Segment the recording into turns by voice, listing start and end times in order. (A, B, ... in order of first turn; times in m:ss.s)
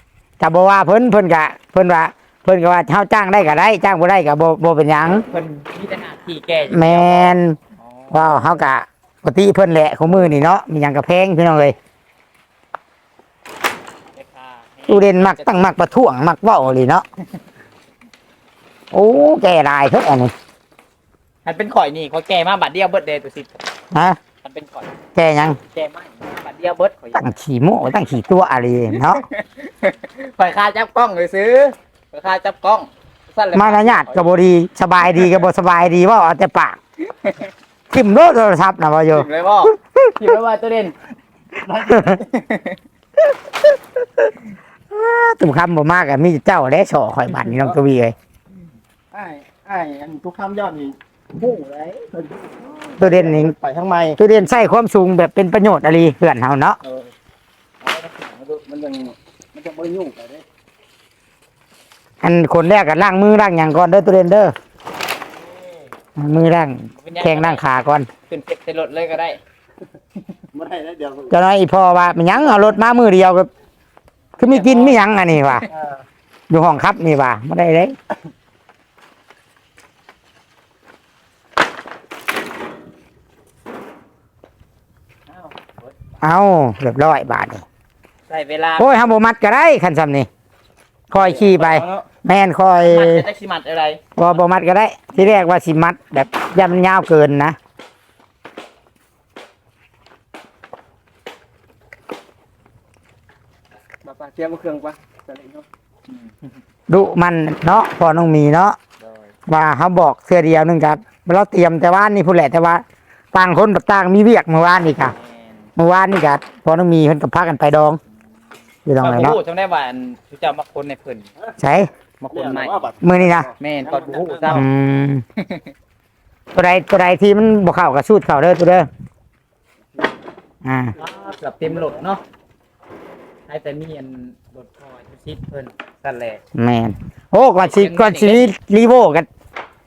0:00.4-0:05.2 A
0:05.3-0:08.6 B
0:06.7-0:07.6 A
0:08.1-0:11.7 A
0:14.1-0:15.5 B
0:14.9-0:17.0 A
0:18.9-0:20.3 A
0:21.4-0:23.5 B
0:23.9-0:24.2 A
0:24.4-0:24.9 B
0:25.1-0:25.6 A
0:25.7-0:27.3 B
0:27.2-0:29.2 A
0:29.0-0:34.4 B
0:33.5-0:36.8 A
0:37.0-0:37.5 B
0:37.9-0:39.3 A
0:39.1-0:41.0 B
0:41.6-0:42.3 C
0:41.9-0:42.2 A
0:42.2-0:42.8 B
0:44.9-0:48.1 A
0:49.1-0:54.2 C
0:53.0-0:53.5 A
0:54.2-0:56.8 A
0:56.8-0:57.1 C
0:57.8-1:00.4 C
1:02.2-1:04.5 A
1:05.2-1:05.9 C
1:06.2-1:08.1 A
1:07.0-1:07.6 B
1:08.3-1:09.4 B
1:10.5-1:11.4 C
1:11.3-1:13.5 A
1:14.4-1:15.6 B
1:14.4-1:15.7 A
1:15.7-1:16.0 C
1:16.5-1:17.9 A
1:25.3-1:25.9 B
1:26.2-1:27.6 A
1:28.3-1:28.9 B
1:28.8-1:30.3 A
1:31.1-1:33.2 A
1:31.1-1:32.0 C
1:32.8-1:34.0 B
1:34.2-1:37.6 A
1:44.0-1:45.6 C
1:46.1-1:46.6 B
1:46.9-1:48.8 A
1:49.0-1:49.3 B
1:49.5-1:55.1 A
1:55.0-1:55.7 B
1:55.8-1:58.0 A
1:58.8-1:59.4 A
1:59.0-2:01.3 B
2:01.6-2:01.9 A
2:02.2-2:02.9 B
2:02.3-2:04.6 C
2:03.0-2:03.5 A
2:03.6-2:04.6 B
2:04.5-2:05.2 A
2:05.4-2:05.7 B
2:06.5-2:08.9 A
2:10.6-2:11.0 A
2:11.0-2:12.2 B
2:13.5-2:16.4 B
2:16.5-2:19.3 A
2:17.6-2:18.5 B